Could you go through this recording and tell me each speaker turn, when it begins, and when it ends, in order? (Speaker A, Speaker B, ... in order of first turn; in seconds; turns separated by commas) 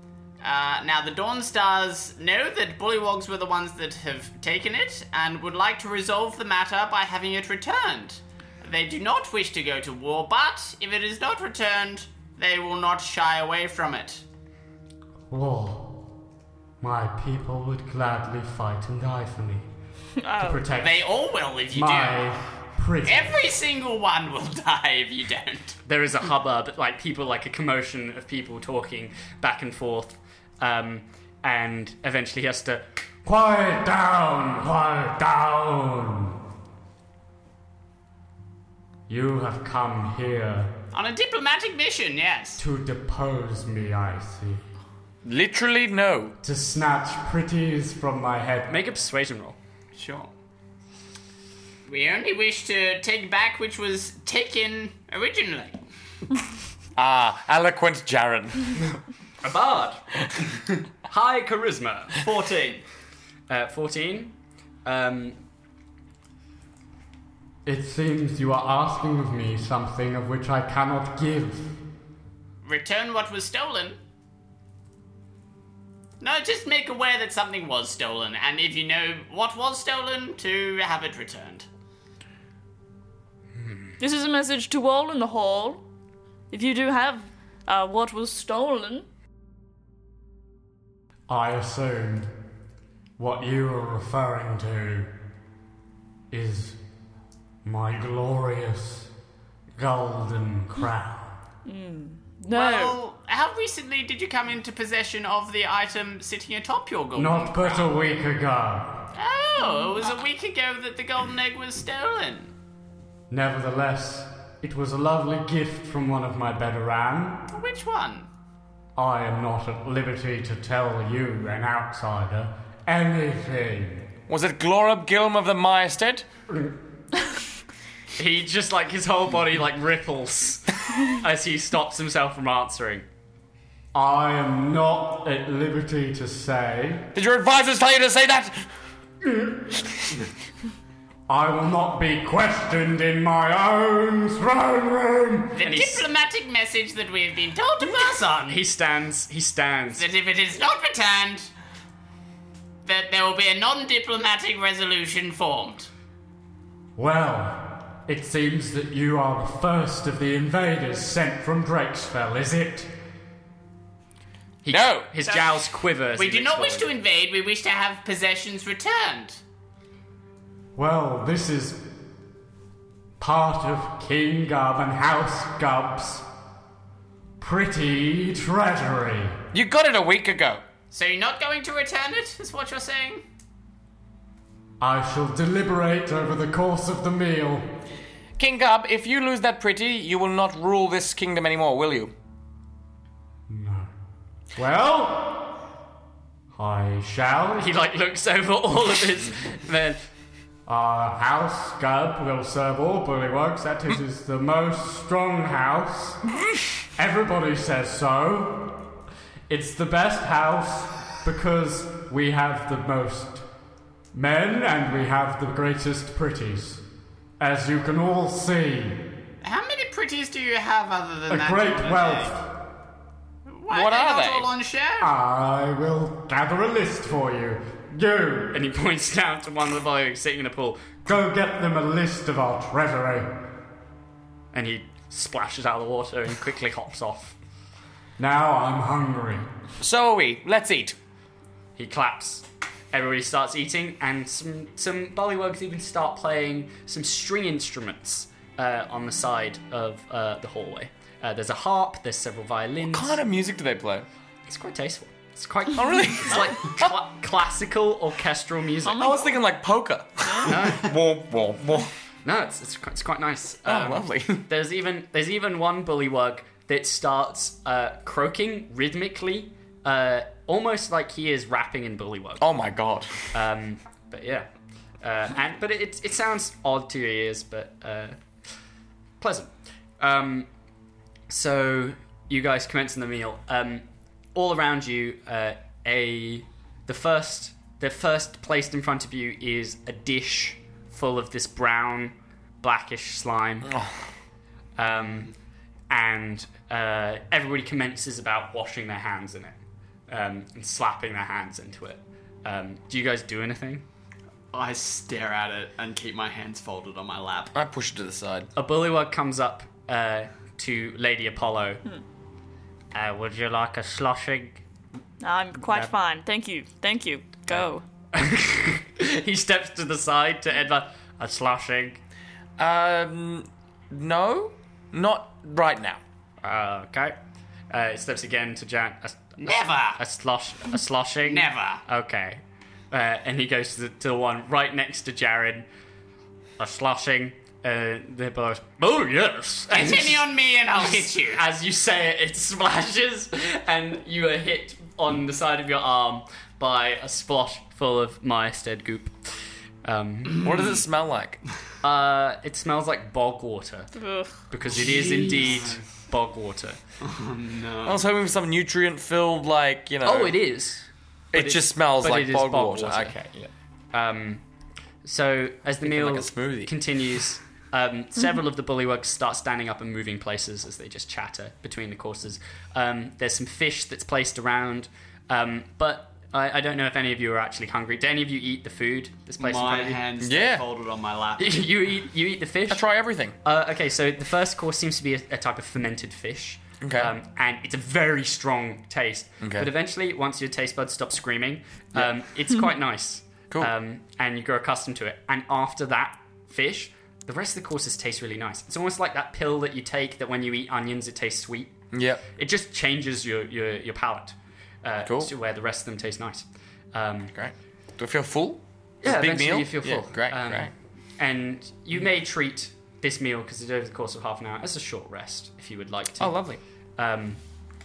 Speaker A: 0.4-14.2, Speaker B: 15.3-16.0, Speaker B: 16.8-19.7, Speaker C: 20.2-20.8, Speaker B: 20.4-21.1, Speaker A: 20.7-22.3, Speaker B: 21.7-23.5, Speaker A: 23.0-25.8, Speaker D: 25.9-32.9, Speaker B: 33.2-36.4, Speaker B: 39.1-40.7, Speaker A: 40.9-42.6, Speaker B: 42.6-44.6, Speaker E: 45.2-46.4, Speaker B: 46.4-48.7, Speaker D: 48.7-49.6, Speaker A: 50.0-50.3, Speaker A: 51.9-55.8, Speaker E: 57.0-59.0, Speaker D: 59.4-60.0, Speaker D: 61.0-62.8, Speaker D: 63.5-65.4, Speaker B: 67.6-71.8, Speaker A: 72.6-74.0, Speaker A: 76.2-81.7, Speaker C: 84.0-85.8, Speaker C: 86.5-89.1, Speaker B: 91.3-92.3, Speaker B: 93.2-95.1, Speaker B: 96.3-96.8, Speaker B: 97.6-99.1, Speaker B: 99.8-101.4, Speaker C: 101.7-103.0, Speaker A: 102.5-107.9, Speaker B: 107.1-109.1, Speaker A: 109.1-112.5, Speaker C: 109.6-110.1, Speaker B: 113.3-117.5, Speaker A: 117.5-118.3, Speaker B: 119.0-124.1, Speaker E: 124.3-126.3, Speaker D: 128.2-133.1, Speaker B: 133.9-137.1, Speaker E: 137.1-138.6, Speaker B: 139.3-139.6, Speaker B: 141.3-145.8, Speaker A: 145.6-148.6, Speaker D: 145.7-146.0, Speaker D: 148.4-150.1, Speaker A: 150.0-151.5, Speaker A: 152.8-155.9, Speaker B: 157.0-162.9, Speaker D: 164.6-166.9, Speaker E: 164.7-165.1, Speaker A: 165.3-165.5, Speaker A: 166.1-169.4, Speaker B: 170.8-171.9, Speaker B: 173.2-176.3, Speaker B: 177.4-179.4, Speaker E: 179.5-180.6, Speaker A: 180.9-183.2, Speaker B: 184.8-187.7, Speaker E: 188.4-192.1, Speaker B: 193.5-193.9, Speaker B: 194.6-195.6, Speaker B: 196.5-197.7, Speaker D: 197.6-200.1, Speaker B: 200.7-206.2, Speaker B: 207.0-208.9, Speaker B: 209.5-213.5, Speaker B: 214.1-216.8, Speaker B: 217.4-219.1, Speaker A: 219.4-222.4, Speaker B: 221.3-222.5, Speaker A: 223.5-225.1, Speaker E: 223.7-224.5, Speaker B: 225.0-228.6, Speaker D: 228.5-231.0, Speaker B: 231.1-233.3, Speaker D: 234.5-237.4, Speaker B: 238.2-239.5, Speaker E: 239.8-241.0, Speaker D: 241.8-253.2, Speaker E: 252.8-254.1, Speaker D: 254.5-259.1, Speaker E: 255.7-256.9, Speaker C: 258.9-259.4, Speaker E: 259.0-261.9, Speaker D: 260.4-260.9, Speaker D: 262.2-272.5, Speaker E: 263.6-264.5, Speaker E: 272.4-273.3, Speaker D: 273.3-274.5, Speaker D: 275.0-278.2, Speaker D: 279.2-280.5, Speaker D: 281.3-293.7, Speaker E: 293.6-294.0, Speaker D: 294.8-295.3, Speaker D: 295.9-299.6, Speaker D: 300.1-303.9, Speaker F: 304.5-307.5, Speaker E: 307.5-308.5, Speaker D: 308.6-311.8, Speaker D: 312.9-314.6, Speaker C: 315.2-317.8, Speaker D: 318.1-322.0, Speaker E: 322.6-326.0, Speaker D: 326.4-327.2, Speaker D: 327.7-335.6, Speaker A: 329.4-330.0, Speaker A: 331.2-331.8, Speaker D: 336.6-349.1, Speaker A: 339.7-341.4, Speaker D: 349.8-350.8, Speaker E: 350.4-351.4, Speaker D: 351.8-353.9, Speaker C: 354.0-354.4, Speaker D: 354.5-356.8, Speaker F: 354.6-355.9, Speaker F: 357.0-358.1, Speaker E: 357.9-360.4, Speaker D: 360.0-363.2, Speaker E: 361.3-363.5, Speaker D: 363.9-364.4, Speaker D: 365.0-380.0, Speaker E: 365.8-366.7, Speaker F: 379.4-381.6, Speaker E: 380.2-380.6, Speaker D: 381.4-382.9, Speaker E: 382.7-383.4, Speaker D: 383.4-401.8, Speaker E: 386.8-387.1, Speaker E: 389.4-389.7, Speaker E: 401.9-402.3, Speaker D: 402.4-407.3, Speaker E: 405.1-405.3, Speaker E: 407.3-410.7, Speaker D: 409.0-416.4, Speaker E: 416.2-416.6, Speaker D: 417.0-417.4